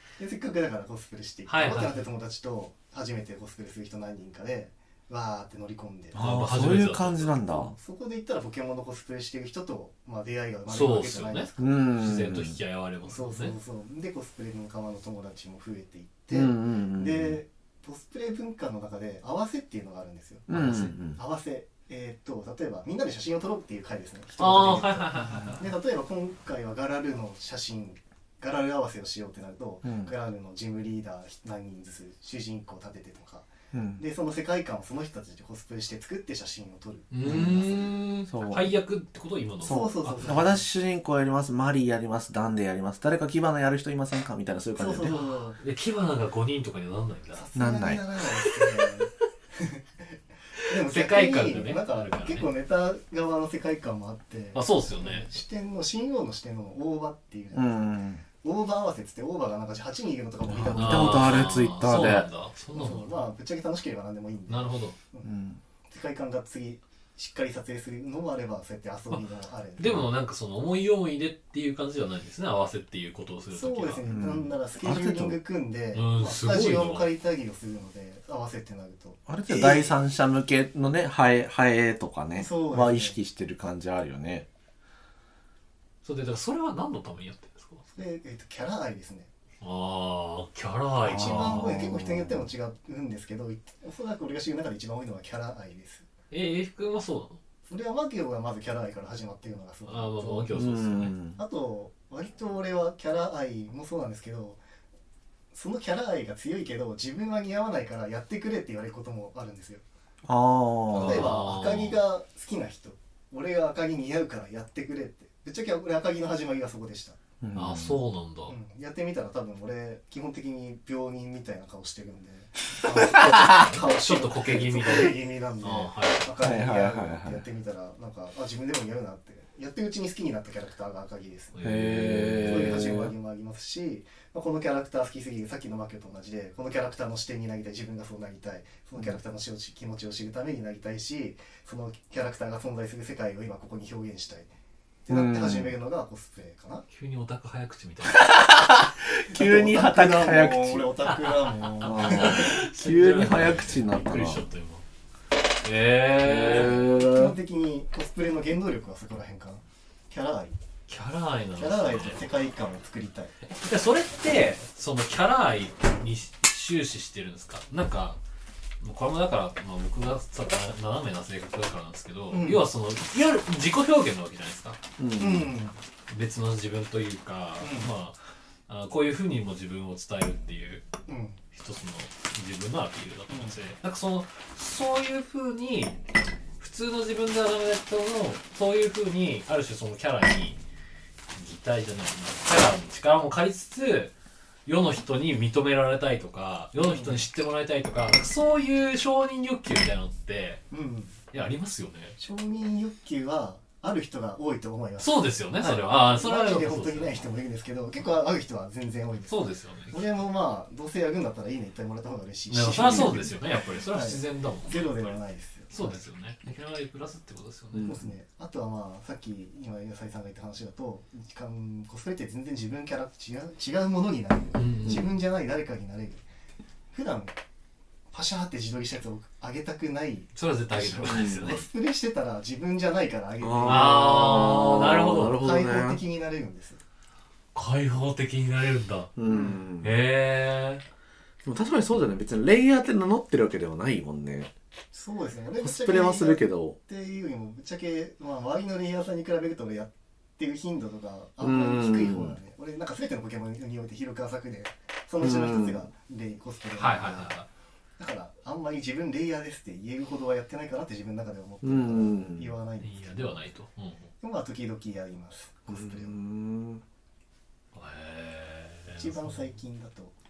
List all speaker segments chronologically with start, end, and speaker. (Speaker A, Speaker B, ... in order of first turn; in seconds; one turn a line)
Speaker A: 0.2-6.2
Speaker B: 1.5-2.0
Speaker C: 6.1-7.8
Speaker B: 6.2-7.3
Speaker A: 7.6-11.8
Speaker B: 10.7-13.6
Speaker C: 11.6-12.6
Speaker A: 13.0-37.9
Speaker C: 16.3-17.4
Speaker C: 20.5-21.2
Speaker B: 20.5-20.9
Speaker B: 24.4-25.7
Speaker C: 29.8-30.1
Speaker C: 33.7-34.0
Speaker B: 37.1-40.4
Speaker C: 37.2-37.6
Speaker C: 38.3-38.7
Speaker C: 39.6-45.2
Speaker A: 39.6-40.6
Speaker A: 44.8-45.6
Speaker B: 45.1-47.5
Speaker A: 47.3-50.1
Speaker C: 47.5-48.0
Speaker A: 50.7-61.4
Speaker B: 50.7-52.5
Speaker B: 54.5-55.3
Speaker C: 57.5-58.2
Speaker B: 60.5-63.2
Speaker C: 60.6-62.3
Speaker A: 62.7-65.3
Speaker B: 64.5-65.0
Speaker C: 65.2-65.6
Speaker A: 65.9-70.1
Speaker B: 69.8-74.1
Speaker A: 73.5-79.9
Speaker C: 74.1-75.4
Speaker B: 75.9-77.1
Speaker C: 79.3-84.5
Speaker A: 82.4-83.2
Speaker B: 86.0-87.8
Speaker A: 87.9-89.3
Speaker B: 89.6-91.7
Speaker A: 91.1-96.1
Speaker C: 91.1-92.5
Speaker B: 96.3-97.4
Speaker A: 97.7-100.5
Speaker B: 99.9-101.1
Speaker C: 100.5-101.4
Speaker A: 101.3-104.6
Speaker A: 105.5-109.8
Speaker C: 110.2-111.3
Speaker A: 110.9-117.2
Speaker B: 110.9-112.0
Speaker C: 117.4-118.0
Speaker B: 117.5-118.6
Speaker A: 118.5-131.6
Speaker C: 123.2-123.7
Speaker B: 123.2-126.3
Speaker C: 126.4-127.4
Speaker B: 131.5-132.8
Speaker C: 131.6-133.1
Speaker A: 132.4-144.5
Speaker A: 145.1-146.8
Speaker C: 145.1-145.8
Speaker B: 146.9-148.4
Speaker C: 148.0-150.9
Speaker A: 149.3-152.7
Speaker B: 151.1-154.8
Speaker C: 151.8-154.4
Speaker B: 155.6-156.9
Speaker C: 156.2-157.4
Speaker A: 156.8-160.6
Speaker B: 160.9-162.5
Speaker A: 161.6-163.4
Speaker B: 163.5-168.2
Speaker B: 168.8-174.8
Speaker A: 172.3-172.6
Speaker C: 175.0-175.5
Speaker A: 175.2-175.8
Speaker B: 176.1-180.9
Speaker A: 177.6-177.9
Speaker A: 181.1-181.4
Speaker B: 181.5-186.0
Speaker A: 183.3-183.6
Speaker B: 186.6-190.6
Speaker B: 191.3-194.1
Speaker B: 194.7-200.6
Speaker A: 196.8-197.2
Speaker A: 200.7-201.2
Speaker B: 201.3-202.2
Speaker A: 202.2-213.4
Speaker B: 205.0-207.2
Speaker B: 209.3-210.2
Speaker B: 212.5-215.2
Speaker C: 212.9-213.2
Speaker A: 213.9-216.0
Speaker B: 215.7-218.0
Speaker C: 217.7-218.1
Speaker A: 217.8-226.2
Speaker B: 224.6-225.1
Speaker C: 224.8-225.1
Speaker A: 226.9-227.4
Speaker A: 228.1-234.2
Speaker B: 230.3-231.7
Speaker C: 231.1-231.5
Speaker C: 233.4-236.0
Speaker B: 233.7-235.4
Speaker A: 235.4-236.8
Speaker B: 237.5-239.1
Speaker C: 239.2-239.9
Speaker A: 239.3-239.6
Speaker B: 239.8-240.8
Speaker C: 241.4-244.5
Speaker A: 244.9-257.4
Speaker C: 245.6-246.8
Speaker C: 251.4-252.4
Speaker C: 255.2-255.9
Speaker B: 256.8-257.5
Speaker A: 258.0-263.4
Speaker C: 261.6-262.6
Speaker B: 262.8-264.1
Speaker A: 264.2-266.2
Speaker C: 265.7-266.8
Speaker B: 267.7-269.6
Speaker A: 268.9-270.1